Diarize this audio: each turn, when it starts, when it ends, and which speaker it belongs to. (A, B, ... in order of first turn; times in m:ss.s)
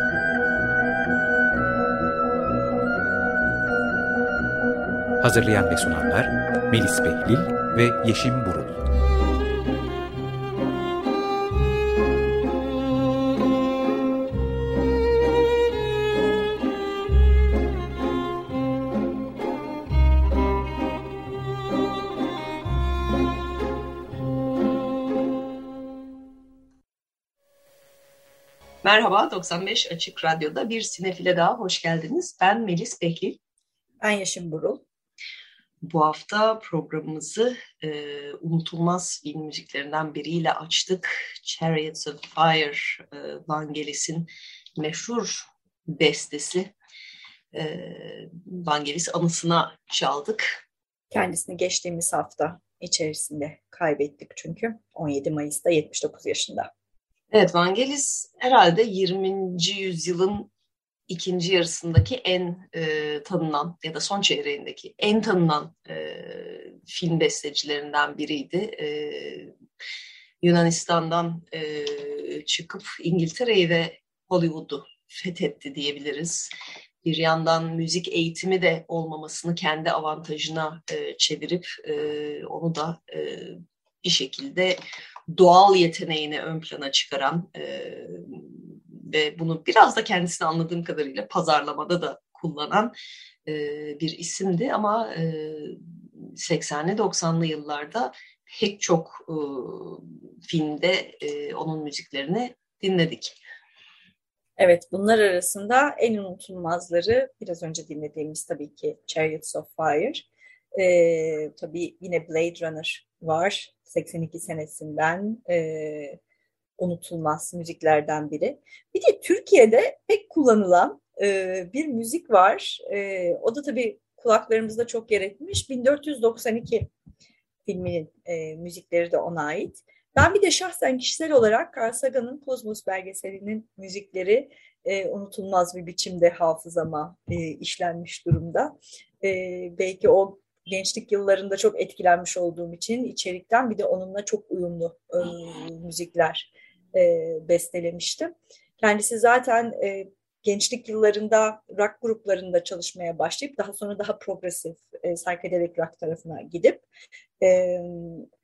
0:05.2-0:08.8 A
0:28.8-0:33.4 B
0:34.0-0:34.8 C
0:35.8-0:46.7 B
0:47.5-0:50.6 B
0:51.1-0:56.7 C
0:57.3-1:00.5 B
1:01.1-1:09.5 B
1:10.4-1:16.5 B
1:17.0-1:24.8 B
1:25.3-1:32.9 B
1:33.4-1:43.4 B
1:44.6-1:56.2 C
1:56.8-2:06.9 C
2:07.6-2:36.8 C
2:37.4-2:38.3 C